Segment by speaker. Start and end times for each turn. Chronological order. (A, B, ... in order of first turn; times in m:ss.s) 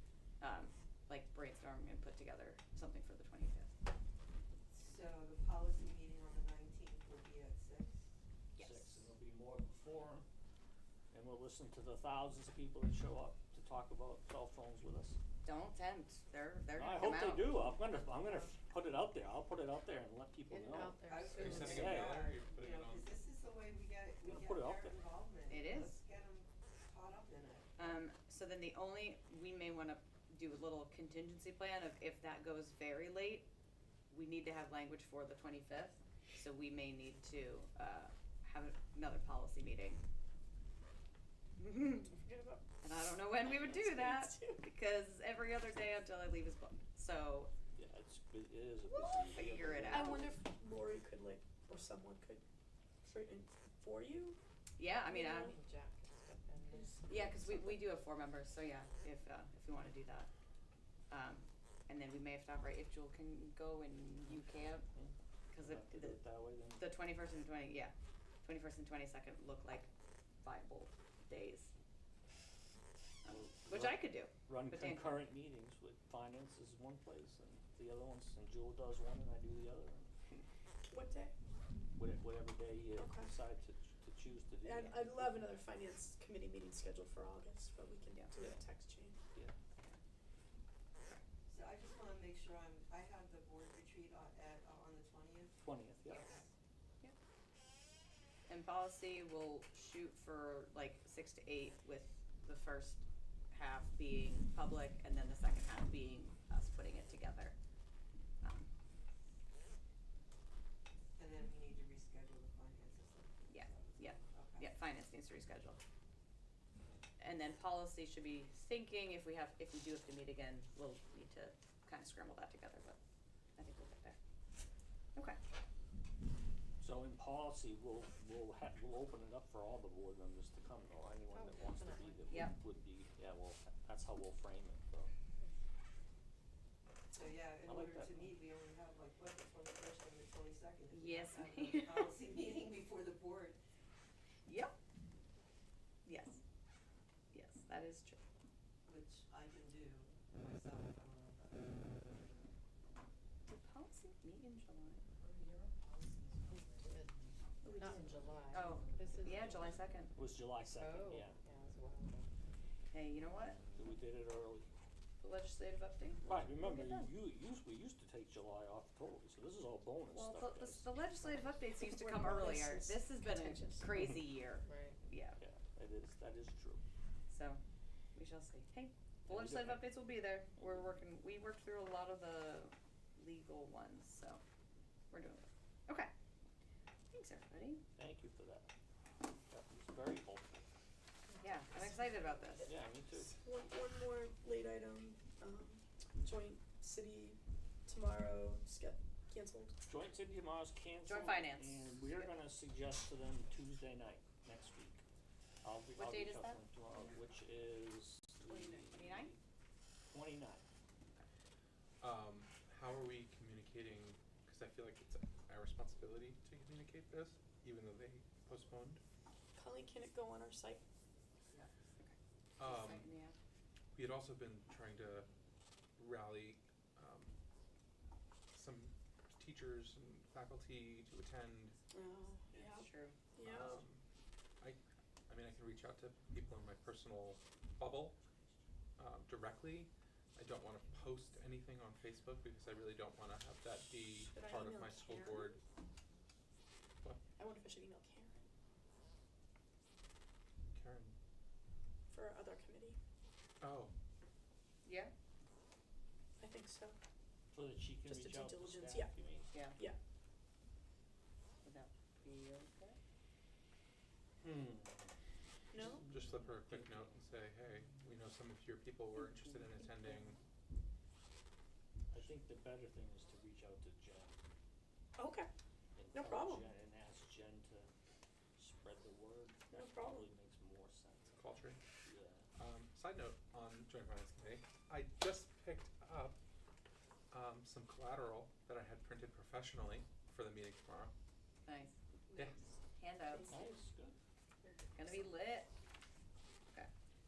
0:00.4-0:03.7 A
0:04.7-0:08.0 B
0:08.5-0:09.1 A
0:08.6-0:10.2 C
0:11.1-0:15.2 C
0:15.4-0:17.8 A
0:16.7-0:22.2 C
0:20.5-0:21.8 D
0:21.1-0:28.0 B
0:21.3-0:23.2 E
0:24.2-0:25.1 C
0:25.5-0:26.0 A
0:27.8-0:33.5 A
0:34.1-0:40.0 A
0:41.6-0:42.1 A
0:42.0-0:42.6 F
0:42.8-0:47.5 A
0:43.5-0:44.6 F
0:47.7-0:50.3 C
0:49.2-0:50.3 A
0:49.9-0:52.4 F
0:53.0-0:54.4 F
0:54.8-0:55.5 A
0:55.0-0:55.6 F
0:55.4-0:57.1 D
0:56.7-0:57.8 F
0:57.1-1:00.3 A
1:01.1-1:04.8 A
1:04.3-1:06.9 C
1:05.5-1:06.2 A
1:06.8-1:09.9 A
1:10.4-1:11.7 A
1:13.2-1:15.2 A
1:13.2-1:20.4 C
1:20.8-1:21.3 F
1:21.9-1:25.5 C
1:22.9-1:23.3 F
1:24.6-1:29.2 F
1:31.5-1:36.5 B
1:35.6-1:36.3 C
1:38.5-1:47.5 A
1:48.4-1:48.7 A
1:51.1-1:54.7 B
1:53.5-1:55.8 A
1:57.2-2:03.0 A
2:03.6-2:04.2 A
2:06.8-2:15.1 C
2:11.3-2:12.4 D
2:12.3-2:12.5 A
2:17.1-2:23.6 B
2:17.6-2:18.3 C
2:20.9-2:22.1 A
2:24.4-2:24.7 A
2:26.0-2:26.4 A
2:27.3-2:28.2 A
2:28.8-2:32.4 B
2:33.5-2:35.1 A
2:35.2-2:39.6 B
2:36.6-2:37.1 D
2:37.6-2:40.1 A
2:37.7-2:39.8 D
2:40.1-2:41.4 C
2:40.8-2:42.3 D
2:42.9-2:43.6 A
2:43.4-2:44.7 C
2:45.2-2:47.1 A
2:46.2-2:51.6 C
2:50.1-2:55.4 A
2:51.8-2:53.8 F
2:54.6-2:55.0 D
2:55.4-2:56.8 C
2:57.3-2:57.6 A
2:58.1-3:04.4 A
2:59.3-2:59.9 C
3:05.1-3:06.1 A
3:07.1-3:07.8 A
3:08.0-3:08.7 C
3:09.5-3:10.6 C
3:11.4-3:12.7 A
3:12.6-3:19.8 F
3:12.6-3:13.3 C
3:19.8-3:25.0 C
3:21.0-3:22.2 A
3:25.6-3:29.4 C
3:25.9-3:26.6 A
3:28.9-3:29.3 A
3:30.1-3:30.6 C
3:32.0-3:39.0 E
3:39.5-3:40.8 F
3:41.5-3:43.3 A
3:42.6-3:43.1 E
3:43.9-3:45.3 E
3:46.0-3:47.4 E
3:48.5-3:51.8 E
3:51.9-3:53.8 F
3:52.5-3:53.2 A
3:53.4-3:54.0 E
3:54.6-3:58.2 E
3:59.0-4:05.6 E
4:04.2-4:05.6 F
4:07.4-4:08.5 F
4:10.7-4:11.1 E
4:12.1-4:13.0 F
4:13.6-4:13.9 E
4:14.8-4:15.1 A
4:16.4-4:17.0 F
4:17.5-4:19.5 C
4:18.0-4:19.1 F
4:19.5-4:19.8 A
4:21.6-4:23.0 A
4:24.4-4:25.1 C
4:25.7-4:26.1 F
4:25.8-4:27.2 C
4:26.0-4:30.4 E
4:32.1-4:34.4 C
4:35.2-4:35.5 F
4:36.0-4:37.9 C
4:36.1-4:36.7 F
4:38.6-4:41.3 C
4:39.7-4:40.3 F
4:41.3-4:41.8 E
4:42.0-4:42.5 C
4:42.5-4:46.4 E
4:47.3-4:51.1 E
4:51.6-4:52.0 A
4:52.3-4:52.6 E
4:52.9-4:53.6 A
4:53.3-4:53.7 F
4:53.5-4:54.2 C
4:54.9-4:55.7 A